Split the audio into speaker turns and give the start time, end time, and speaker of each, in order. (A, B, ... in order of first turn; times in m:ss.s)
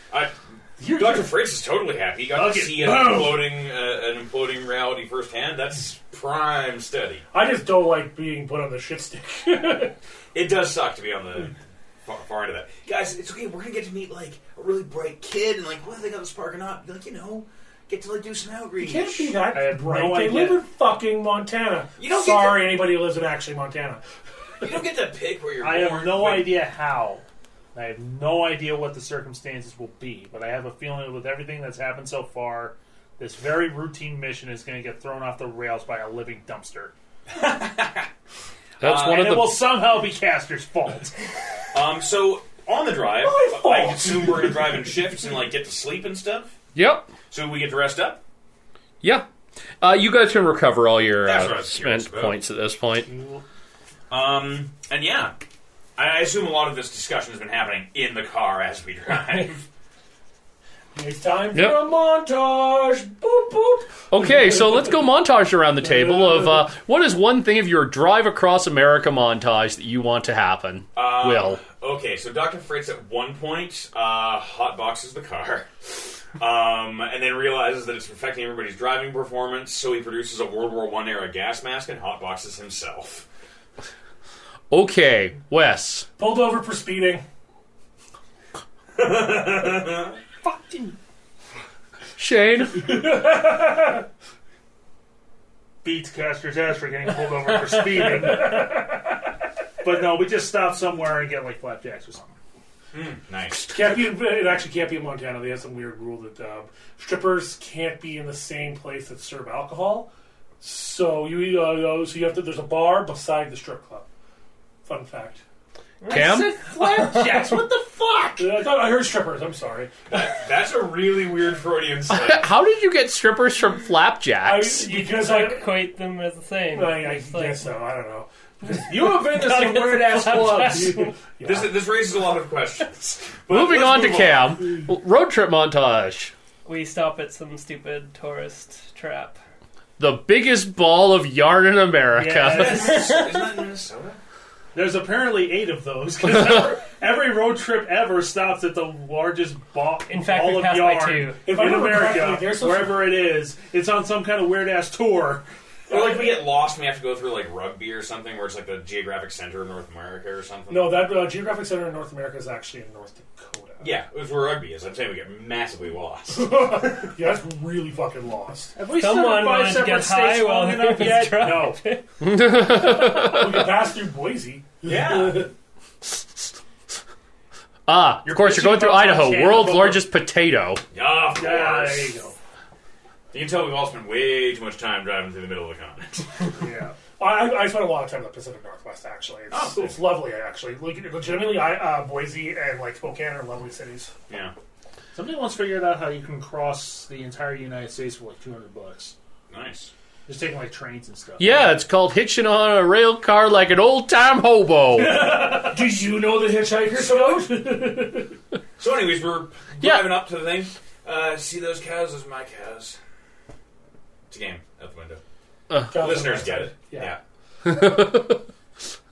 0:00.1-0:07.2 A
0:00.8-0:01.3 B
0:02.3-0:03.5 C
0:07.3-0:09.9 B
0:10.3-0:19.4 A
0:18.8-0:24.0 B
0:19.5-0:20.6 C
0:22.0-0:22.8 A
0:24.6-0:26.5 A
0:25.6-0:36.9 C
0:37.3-0:38.1 A
0:38.8-0:39.3 A
0:38.8-0:39.6 D
0:39.0-0:41.1 C
0:41.7-0:46.5 A
0:43.2-0:45.0 B
0:46.7-0:47.1 D
0:47.3-0:48.2 A
0:49.0-0:49.3 D
0:49.8-0:53.1 D
0:51.2-0:52.4 A
0:53.1-0:53.4 B
0:54.1-0:55.3 A
0:56.0-0:59.6 A
1:00.9-1:04.9 B
1:01.5-1:01.8 D
1:04.1-1:11.6 D
1:05.8-1:06.6 B
1:10.9-1:23.2 A
1:24.7-1:26.1 D
1:26.2-1:27.2 B
1:29.0-1:30.2 A
1:30.4-1:30.9 B
1:32.2-1:33.1 D
1:32.8-1:34.0 B
1:35.8-1:38.8 C
1:38.4-1:39.1 B
1:39.8-1:42.4 C
1:42.9-1:43.7 A
1:43.6-1:50.1 B
1:50.6-1:54.1 B
1:54.8-1:55.4 B
1:56.0-1:57.4 E
1:56.1-1:56.6 D
1:56.1-1:59.9 B
2:00.1-2:02.5 A
2:02.1-2:04.9 D
2:04.4-2:05.7 B
2:05.0-2:07.7 E
2:06.7-2:09.2 B
2:08.8-2:11.2 C
2:09.2-2:11.1 E
2:10.9-2:11.7 B
2:11.4-2:14.7 A
2:13.5-2:16.3 D
2:16.6-2:19.4 E
2:20.0-2:23.0 D
2:22.1-2:23.2 C
2:22.5-2:24.2 A
2:24.7-2:35.5 C
2:30.1-2:31.5 E
2:31.4-2:33.2 B
2:35.9-2:36.4 B
2:35.9-2:41.1 A
2:40.7-2:43.9 B
2:43.8-2:46.6 A
2:46.3-2:48.8 B
2:48.7-2:51.8 C
2:48.9-2:52.0 E
2:52.2-2:53.7 D
2:52.5-2:55.5 B
2:54.8-2:55.5 A
2:57.9-3:00.8 D
2:58.2-3:00.0 C
3:00.9-3:02.2 A
3:01.3-3:02.4 C
3:03.3-3:06.3 A
3:06.5-3:07.0 C
3:07.0-3:14.1 B
3:09.5-3:10.0 A
3:14.3-3:14.5 A
3:15.1-3:19.1 C
3:19.5-3:19.9 A
3:20.3-3:21.8 C
3:21.4-3:25.4 D
3:25.0-3:25.7 C
3:25.2-3:28.4 B
3:28.8-3:33.0 A
3:29.8-3:30.1 D
3:34.3-3:35.2 A
3:35.7-3:36.1 D
3:35.9-3:37.1 B
3:35.9-3:37.2 A
3:37.6-3:38.4 D